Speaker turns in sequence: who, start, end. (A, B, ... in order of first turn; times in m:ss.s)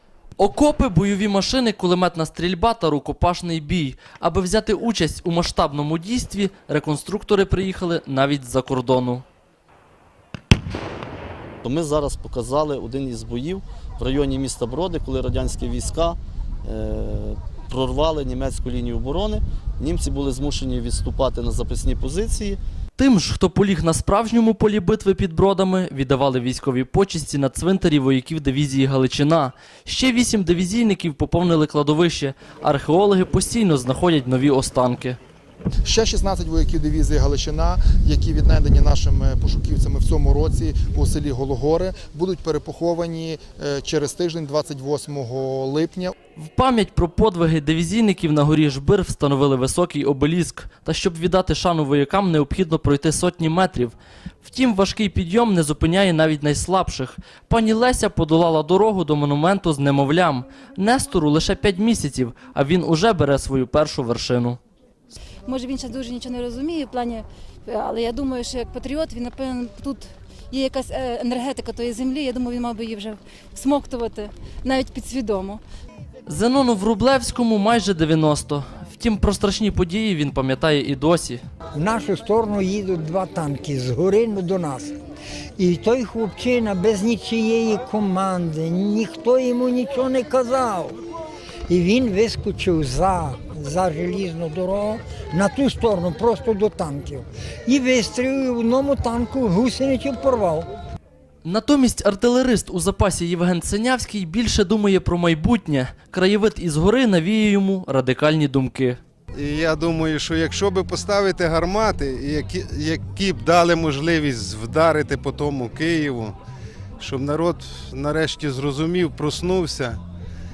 0:00.4-0:09.2 A
0:11.6-0:22.6 B
0:23.0-0:35.2 A
0:35.8-0:46.2 C
0:46.4-1:04.6 A
1:05.5-1:15.6 D
1:16.3-1:21.4 A
1:21.8-1:24.9 E
1:25.6-1:31.0 E
1:31.7-1:40.7 E
1:41.4-1:49.0 A
1:49.3-1:56.4 F
1:57.0-2:00.0 F